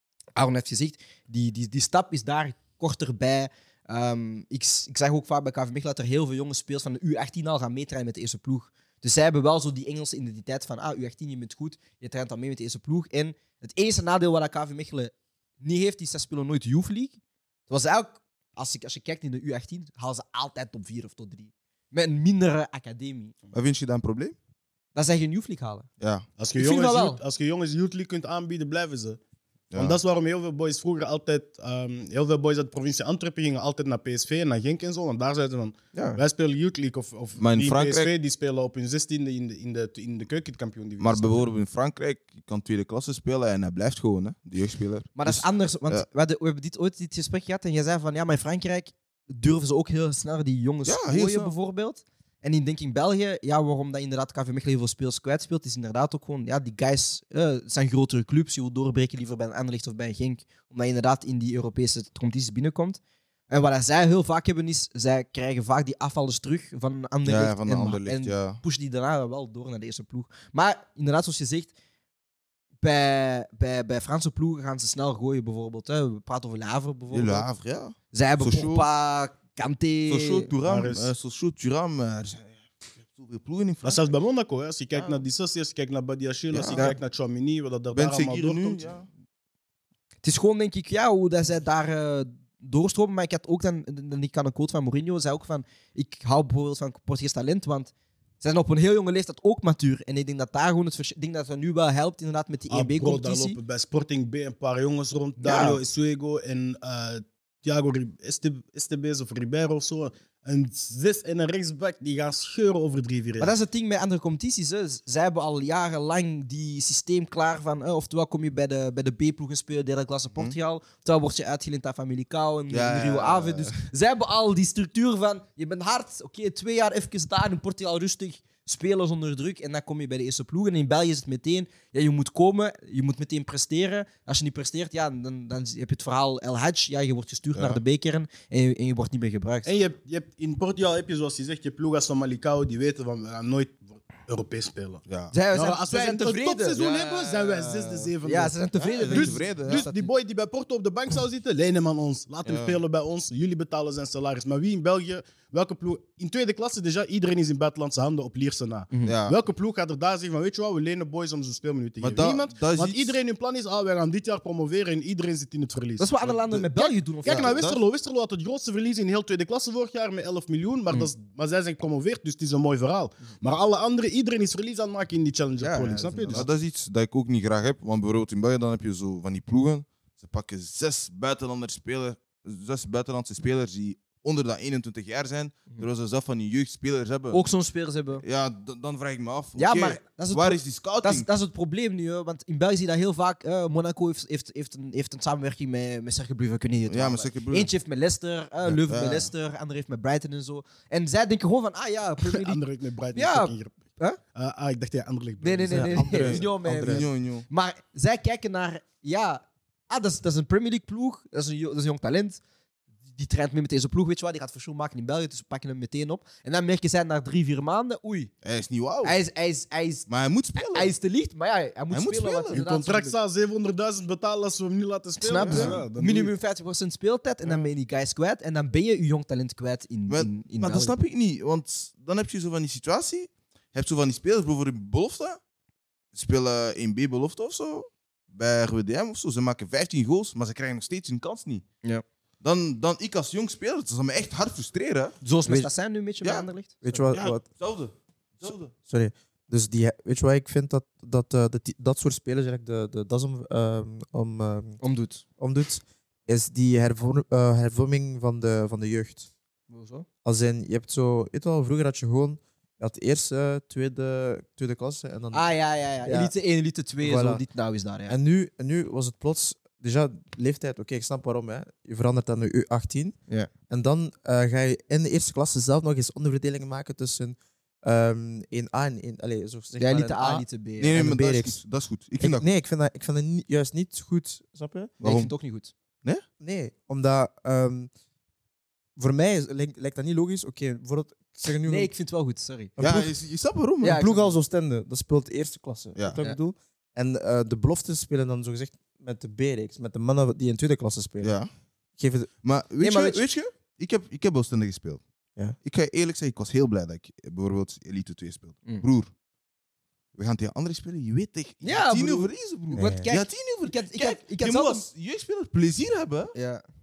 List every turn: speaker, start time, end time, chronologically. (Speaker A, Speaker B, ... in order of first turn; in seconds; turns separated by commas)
Speaker A: 0.3-23.3, Speaker B: 23.5-24.3, Speaker A: 24.9-25.9, Speaker B: 26.0-26.2, Speaker C: 26.4-29.2, Speaker A: 26.5-27.2, Speaker B: 29.7-30.0, Speaker C: 29.7-41.5, Speaker A: 35.9-36.2, Speaker B: 37.4-38.1, Speaker B: 41.0-46.0, Speaker A: 45.1-71.7, Speaker B: 50.8-51.5, Speaker B: 67.2-68.6, Speaker A: 72.8-77.5, Speaker B: 77.1-78.9, Speaker A: 78.1-80.5, Speaker B: 80.1-84.1, Speaker C: 80.6-81.1, Speaker C: 83.8-88.9, Speaker B: 84.9-85.2, Speaker B: 86.5-86.9, Speaker B: 87.9-89.1, Speaker A: 90.2-103.6, Speaker C: 102.7-113.5, Speaker A: 105.4-105.8, Speaker A: 113.4-139.7, Speaker B: 122.7-123.8, Speaker B: 137.5-137.8, Speaker C: 139.6-148.6, Speaker B: 145.1-145.3, Speaker A: 145.3-146.9, Speaker B: 146.8-148.1, Speaker A: 148.2-150.1, Speaker B: 148.8-149.9, Speaker C: 149.1-176.5, Speaker B: 152.4-152.8, Speaker B: 159.1-159.4, Speaker B: 162.0-163.2, Speaker A: 166.0-167.6, Speaker B: 167.2-167.8, Speaker A: 175.6-176.5, Speaker B: 176.3-187.4, Speaker A: 187.3-188.2, Speaker B: 188.2-191.3, Speaker A: 189.6-202.6, Speaker B: 196.9-197.7, Speaker B: 198.6-199.3, Speaker C: 202.3-203.8, Speaker A: 203.1-204.2, Speaker C: 204.3-206.0, Speaker A: 205.4-212.4, Speaker D: 205.7-207.1, Speaker B: 206.0-207.4, Speaker A: 213.1-218.3, Speaker B: 218.4-219.2, Speaker A: 219.0-223.2, Speaker B: 220.1-220.9, Speaker B: 221.9-222.6, Speaker C: 222.5-226.3, Speaker A: 225.2-230.9, Speaker B: 225.4-225.8, Speaker B: 230.1-235.4, Speaker B: 236.1-241.6, Speaker B: 242.4-245.2, Speaker A: 245.2-247.1, Speaker D: 246.8-247.4, Speaker B: 247.1-248.7, Speaker D: 248.8-254.8, Speaker A: 254.8-255.2, Speaker D: 255.4-259.3, Speaker A: 259.7-260.1, Speaker D: 260.2-265.5, Speaker A: 265.3-268.2, Speaker D: 266.0-266.3, Speaker D: 267.0-267.4, Speaker D: 268.1-273.2, Speaker D: 273.7-281.6, Speaker A: 279.8-281.1, Speaker B: 280.8-282.4, Speaker D: 282.2-284.9, Speaker B: 285.0-285.3, Speaker A: 285.0-285.7, Speaker D: 286.4-287.9, Speaker D: 288.9-291.9, Speaker A: 291.6-292.8, Speaker D: 292.8-293.1, Speaker B: 292.8-294.0, Speaker A: 293.8-294.3, Speaker D: 293.8-301.3, Speaker B: 301.2-301.5, Speaker D: 302.0-302.3, Speaker B: 302.4-305.0, Speaker A: 302.8-303.3, Speaker B: 305.6-309.1, Speaker B: 310.1-316.3, Speaker A: 311.6-314.9, Speaker D: 312.7-313.1, Speaker A: 316.3-316.6